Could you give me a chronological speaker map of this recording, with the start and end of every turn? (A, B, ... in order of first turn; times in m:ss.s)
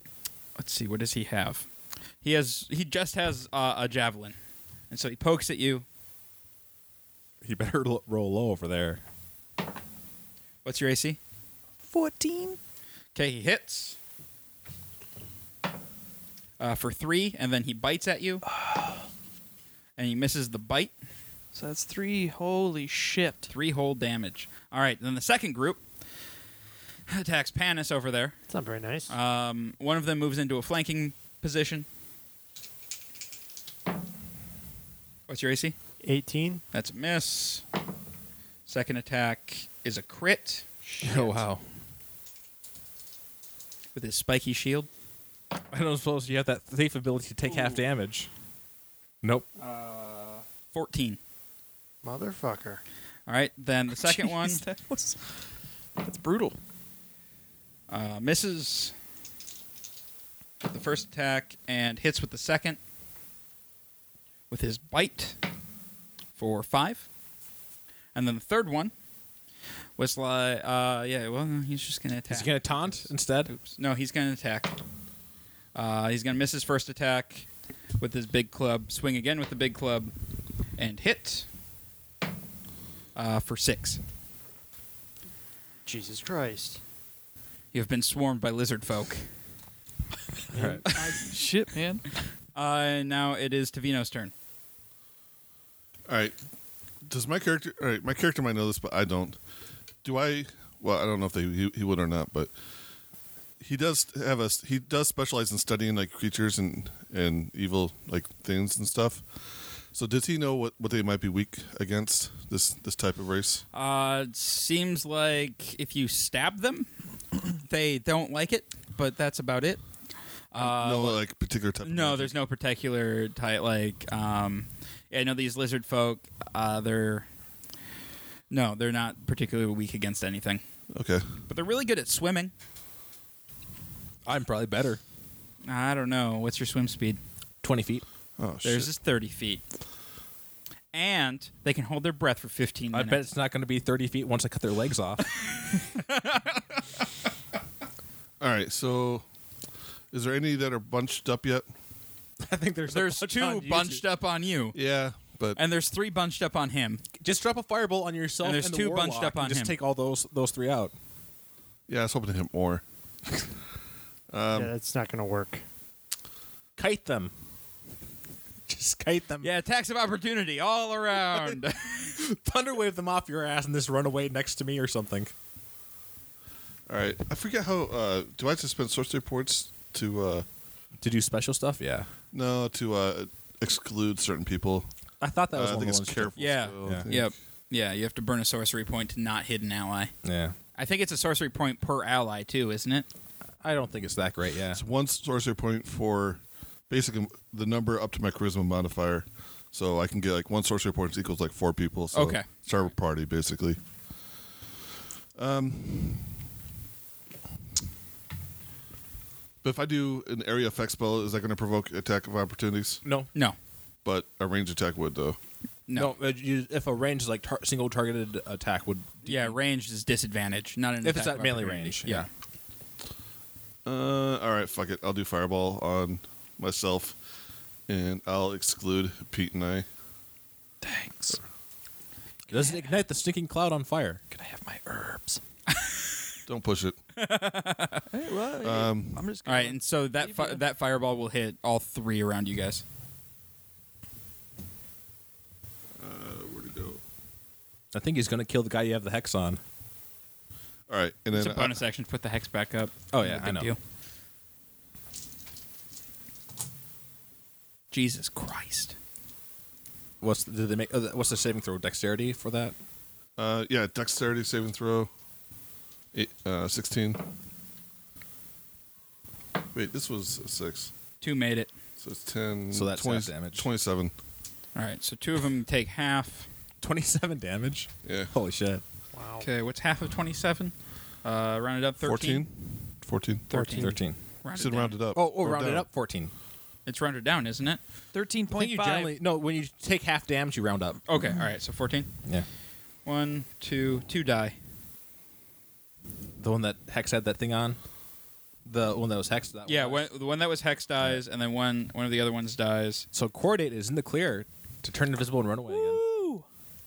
0:00.6-0:01.7 A
0:02.2-0:04.4 A
0:04.9-0:05.8 A
0:07.4-0:09.0 B
0:10.6-0:11.2 A
0:11.8-0:12.6 C
0:13.2-0:14.0 A
0:16.6-0:18.4 A
0:18.5-0:19.0 C
0:20.0-0:20.9 A
0:21.5-0:23.5 C
0:23.5-0:25.8 A
0:27.1-0:28.4 A
0:28.5-0:29.1 D
0:29.1-0:31.9 A
0:35.3-0:35.8 A
0:36.0-0:36.6 D
0:36.7-0:37.6 A
0:38.7-0:41.4 A
0:41.0-0:41.6 B
0:44.0-0:44.9 A
0:45.7-0:48.3 B
0:49.2-0:49.5 B
0:49.6-0:51.2 A
0:52.0-0:52.8 D
0:53.3-0:54.6 A
0:54.0-0:56.6 C
0:57.9-0:59.0 A
1:00.6-1:02.8 A
1:04.5-1:05.4 A
1:06.4-1:07.1 A
1:08.1-1:08.9 A
1:10.0-1:14.8 A
1:12.3-1:13.5 B
1:15.7-1:17.5 A
1:18.0-1:20.1 A
1:20.8-1:21.5 A
1:23.2-1:24.0 A
1:25.9-1:26.8 D
1:27.7-1:29.3 A
1:30.5-1:30.8 B
1:30.5-1:31.3 D
1:31.1-1:32.1 C
1:32.6-1:34.3 A
1:36.1-1:36.4 E
1:37.1-1:39.4 E
1:40.0-1:42.5 E
1:43.6-1:53.6 E
1:53.7-1:56.9 A
1:57.5-1:59.8 A
2:00.5-2:01.2 A
2:00.6-2:02.3 E
2:01.8-2:07.3 A
2:08.5-2:10.6 A
2:10.9-2:11.3 E
2:11.5-2:12.5 A
2:14.2-2:15.0 B
2:15.6-2:17.2 A
2:17.6-2:18.0 B
2:18.4-2:18.9 E
2:18.6-2:19.6 A
2:20.9-2:23.2 A
2:22.9-2:25.2 B
2:25.6-2:26.8 A
2:28.4-2:29.2 E
2:30.1-2:31.7 E
2:32.4-2:34.0 B
2:32.9-2:34.8 A
2:34.7-2:35.6 E
2:35.6-2:37.0 A
2:37.2-2:40.9 B
2:38.4-2:39.7 A
2:41.9-2:42.8 E
2:44.3-2:44.7 E
2:44.5-2:45.6 D
2:46.8-2:47.3 B
2:48.7-2:49.5 B
2:49.4-2:52.2 A
2:52.2-2:55.3 B
2:56.9-3:00.5 E
3:01.0-3:02.1 B
3:02.3-3:04.9 E
3:05.2-3:07.1 B
3:05.5-3:07.3 E
3:06.4-3:10.1 A
3:10.2-3:10.6 B
3:10.8-3:13.1 A
3:13.6-3:14.8 B
3:14.7-3:23.8 E
3:22.1-3:22.5 A
3:25.4-3:26.4 E
3:29.6-3:33.0 E
3:34.0-3:35.4 E
3:35.9-3:36.1 A
3:36.0-3:39.6 B
3:39.3-3:42.3 A
3:41.0-3:42.3 B
3:43.8-3:47.2 E
3:47.9-3:49.9 E
3:50.8-3:51.4 C
3:52.5-3:54.2 B
3:52.5-3:52.9 C
3:54.3-3:55.4 C
3:56.5-3:57.0 E
3:57.2-3:58.1 A
3:58.1-4:00.6 C
3:58.6-3:59.3 E
3:59.4-4:02.8 A
4:06.0-4:07.0 E
4:07.9-4:09.6 B
4:10.9-4:11.8 E
4:11.3-4:13.8 A
4:13.1-4:13.7 B
4:17.9-4:19.0 A
4:20.2-4:22.8 B
4:23.4-4:25.1 E
4:26.1-4:27.2 E
4:29.7-4:30.9 E
4:31.2-4:31.7 A
4:32.0-4:34.1 E
4:32.7-4:33.7 B
4:34.8-4:36.5 A
4:36.8-4:38.8 B
4:38.0-4:38.3 E
4:39.1-4:39.5 D
4:39.4-4:40.7 A
4:41.2-4:42.4 A
4:42.0-4:43.5 E
4:43.5-4:45.0 A
4:43.5-4:44.0 D
4:43.8-4:44.2 B
4:44.6-4:45.9 E
4:45.2-4:46.3 B
4:46.9-4:47.8 A
4:48.1-4:49.1 C
4:48.5-4:51.0 B
4:51.1-4:52.1 A
4:53.0-4:54.6 A
4:56.4-4:57.8 B
4:58.6-5:00.1 B
4:59.7-5:03.1 A
5:03.1-5:06.0 B
5:05.7-5:06.4 C